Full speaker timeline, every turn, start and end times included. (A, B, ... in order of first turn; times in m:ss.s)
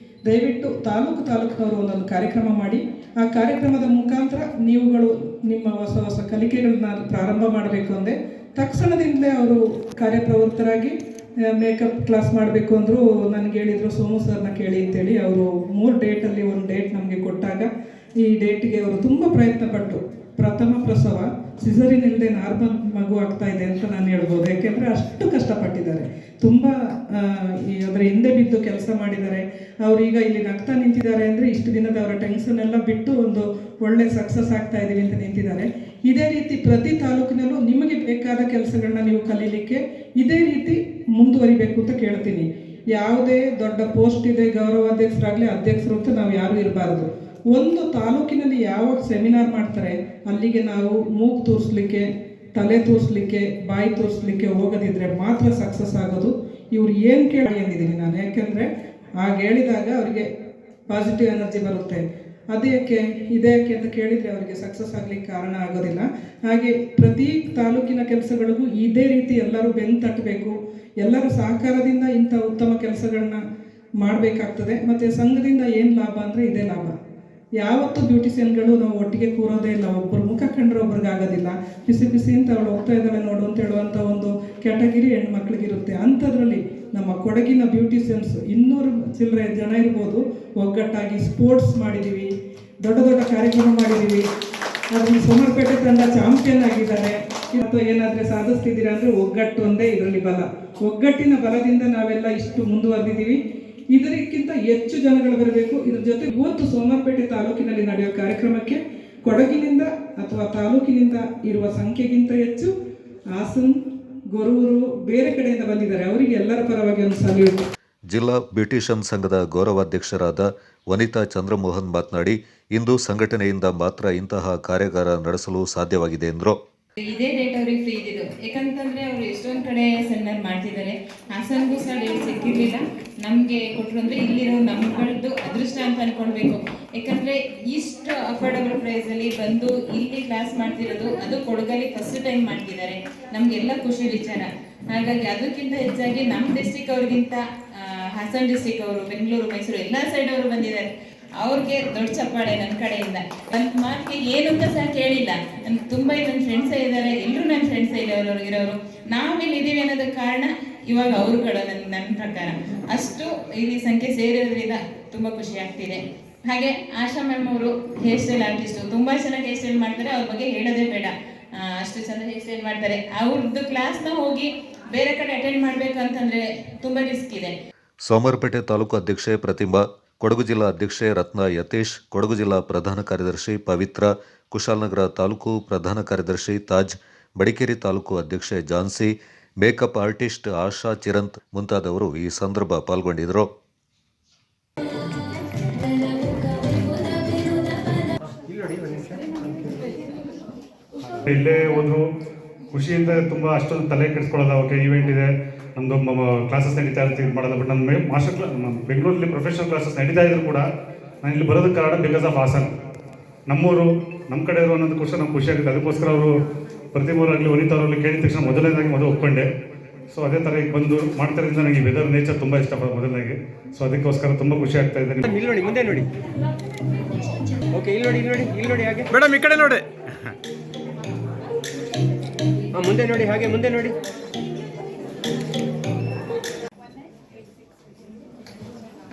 0:00.2-0:10.9 A
0:11.5-0:17.7 A
0:18.2-1:00.3 A
1:00.9-1:13.4 A
1:14.0-1:16.9 A
1:17.6-1:32.3 A
1:32.8-1:34.2 A
1:34.9-1:43.4 A
1:43.9-1:52.7 A
1:53.3-1:53.8 A
1:54.3-1:57.6 A
1:58.1-2:06.6 B
2:07.0-2:57.5 C
2:58.0-3:13.5 B
3:18.4-3:19.4 D
3:21.2-3:22.0 E
3:22.7-3:30.6 E
3:31.2-3:32.7 E
3:33.5-3:36.3 E
3:36.9-3:39.5 E
3:40.1-3:45.3 E
3:45.2-3:46.1 D
3:47.7-3:49.2 D
3:49.2-3:49.8 E
3:52.7-3:54.0 D